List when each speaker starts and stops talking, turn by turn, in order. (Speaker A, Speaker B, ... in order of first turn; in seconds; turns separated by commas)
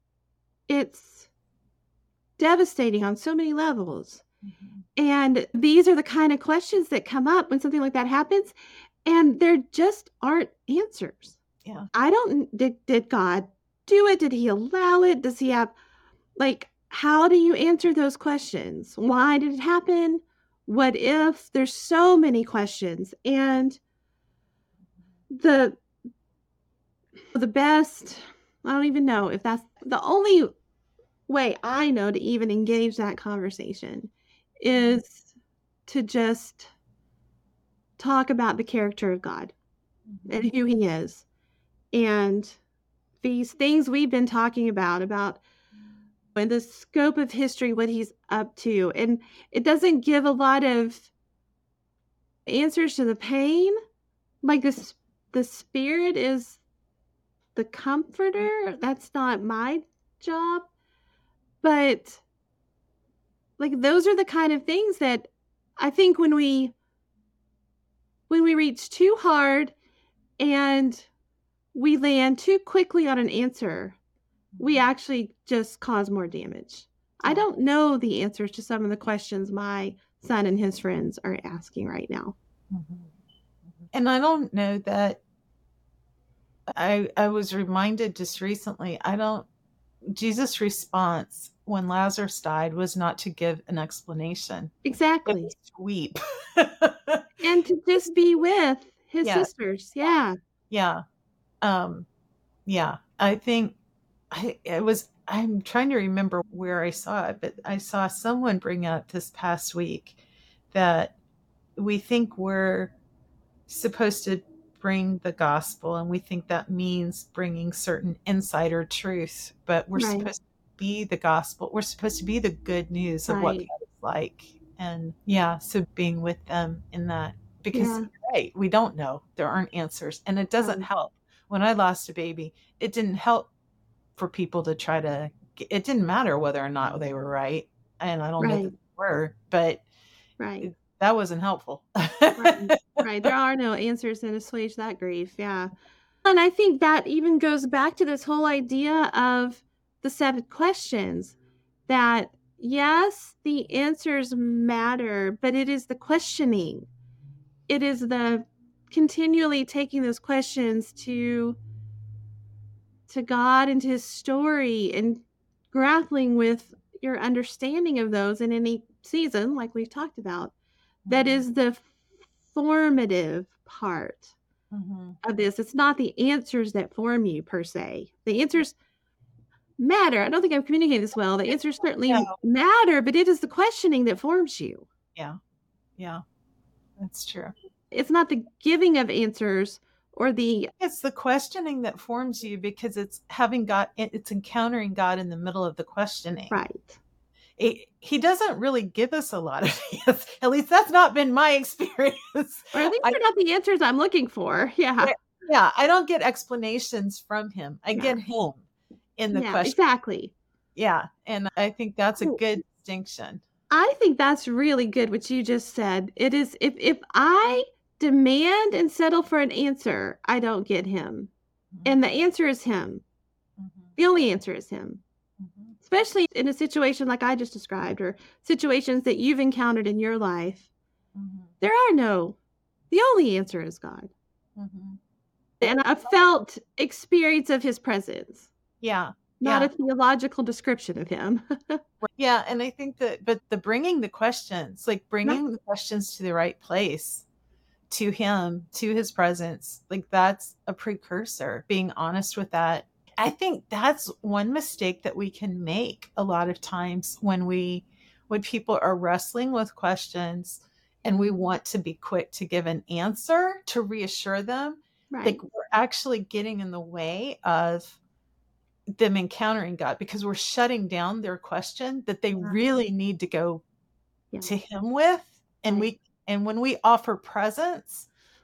Speaker A: 0.7-1.3, Speaker A: 2.4-4.2, Speaker B: 4.4-4.8, Speaker A: 5.0-8.5, Speaker A: 9.0-11.3, Speaker A: 11.9-15.7, Speaker A: 16.4-23.8, Speaker A: 25.3-25.8, Speaker A: 27.3-30.5, Speaker A: 31.3-35.2, Speaker A: 35.9-36.7, Speaker A: 38.0-39.5, Speaker B: 40.1-40.5, Speaker A: 40.3-41.2, Speaker A: 41.9-42.6, Speaker A: 43.2-45.4, Speaker A: 46.3-51.1, Speaker A: 52.5-53.8, Speaker A: 54.4-56.6, Speaker A: 57.5-60.7, Speaker A: 61.6-62.2, Speaker A: 63.6-66.7, Speaker A: 68.3-69.7, Speaker A: 70.4-71.1, Speaker A: 71.7-74.0, Speaker B: 74.5-74.8, Speaker A: 74.6-82.3, Speaker B: 82.7-83.1, Speaker B: 83.9-85.2, Speaker B: 86.7-89.5, Speaker B: 90.1-94.7, Speaker A: 94.8-95.5, Speaker B: 95.2-97.2, Speaker A: 97.4-100.3, Speaker B: 99.2-99.5, Speaker B: 100.7-101.0, Speaker B: 101.6-102.0, Speaker B: 102.7-103.8, Speaker B: 104.3-110.2, Speaker B: 110.7-111.1, Speaker B: 111.8-112.9, Speaker B: 113.7-133.5, Speaker A: 120.0-120.3, Speaker A: 123.3-123.7, Speaker A: 127.7-128.1, Speaker B: 134.2-139.8, Speaker A: 138.4-138.7, Speaker A: 140.4-140.7, Speaker B: 140.6-143.3, Speaker A: 142.4-151.3, Speaker A: 151.9-156.9, Speaker A: 157.7-161.6, Speaker A: 163.1-170.5, Speaker B: 171.1-171.4, Speaker A: 171.1-171.9, Speaker A: 172.5-174.3, Speaker B: 174.7-175.2, Speaker A: 175.2-178.7, Speaker A: 179.8-184.8, Speaker B: 182.1-182.3, Speaker B: 187.0-187.5, Speaker A: 187.9-190.7, Speaker B: 190.8-196.6, Speaker A: 196.5-197.0, Speaker B: 197.6-203.2, Speaker A: 202.7-205.1, Speaker B: 205.0-208.6, Speaker B: 209.2-209.8, Speaker A: 209.3-210.3, Speaker B: 210.8-213.4, Speaker A: 213.7-221.3, Speaker A: 221.8-223.0, Speaker B: 223.6-223.9, Speaker A: 224.0-225.0, Speaker B: 225.4-225.8, Speaker A: 225.8-230.7, Speaker B: 231.1-231.5, Speaker A: 231.6-232.4, Speaker A: 232.9-234.1, Speaker B: 234.6-235.0, Speaker A: 235.6-238.5, Speaker B: 238.8-239.7, Speaker A: 239.4-241.8, Speaker B: 242.0-247.2, Speaker B: 247.9-268.0, Speaker A: 261.0-261.3, Speaker A: 265.1-265.4, Speaker B: 268.9-273.6, Speaker B: 274.4-278.1